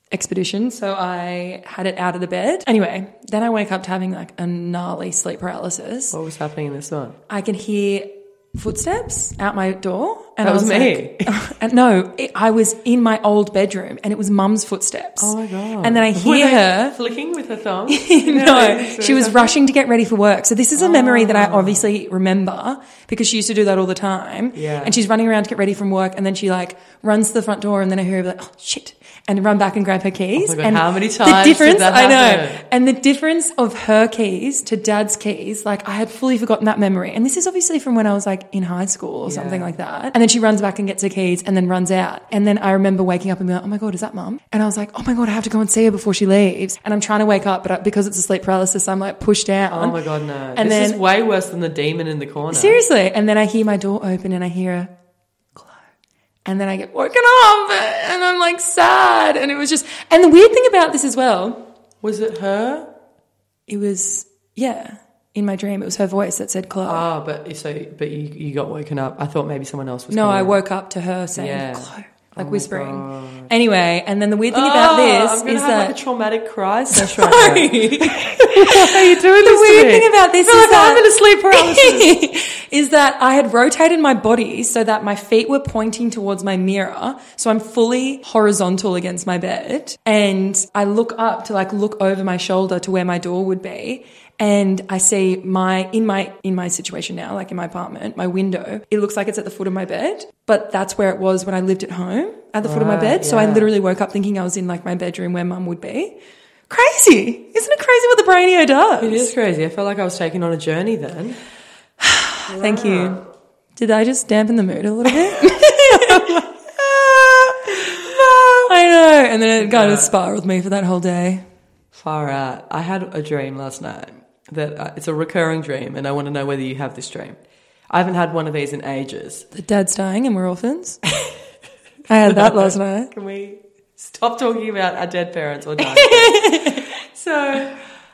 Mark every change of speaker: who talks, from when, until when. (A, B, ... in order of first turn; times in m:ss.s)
0:00.1-0:06.2 A
0:06.1-0:07.2 B
0:07.3-0:17.0 A
0:10.4-0:11.3 B
0:15.2-0:19.6 B
0:17.9-0:50.0 A
0:20.8-0:21.9 B
0:24.5-0:25.0 B
0:30.4-0:32.6 B
0:39.2-0:39.7 B
0:49.7-0:52.8 B
0:50.6-0:51.0 A
0:52.5-0:54.9 A
0:55.5-0:55.8 A
0:56.4-1:01.6 A
1:02.0-1:02.9 B
1:03.7-1:07.0 A
1:06.8-1:10.6 B
1:10.1-1:15.9 A
1:11.4-1:13.5 B
1:14.5-1:22.2 B
1:16.9-1:46.2 A
1:42.6-1:43.7 B
1:46.7-1:49.3 A
1:49.0-1:51.4 B
1:52.0-1:53.2 A
1:52.5-1:53.2 B
1:53.8-1:56.5 A
1:55.2-1:58.7 B
1:58.6-2:01.4 A
1:59.6-2:00.1 B
2:01.9-2:07.4 B
2:07.9-2:09.4 B
2:09.5-2:11.0 A
2:12.1-2:13.1 A
2:12.3-2:17.8 B
2:15.8-2:16.9 A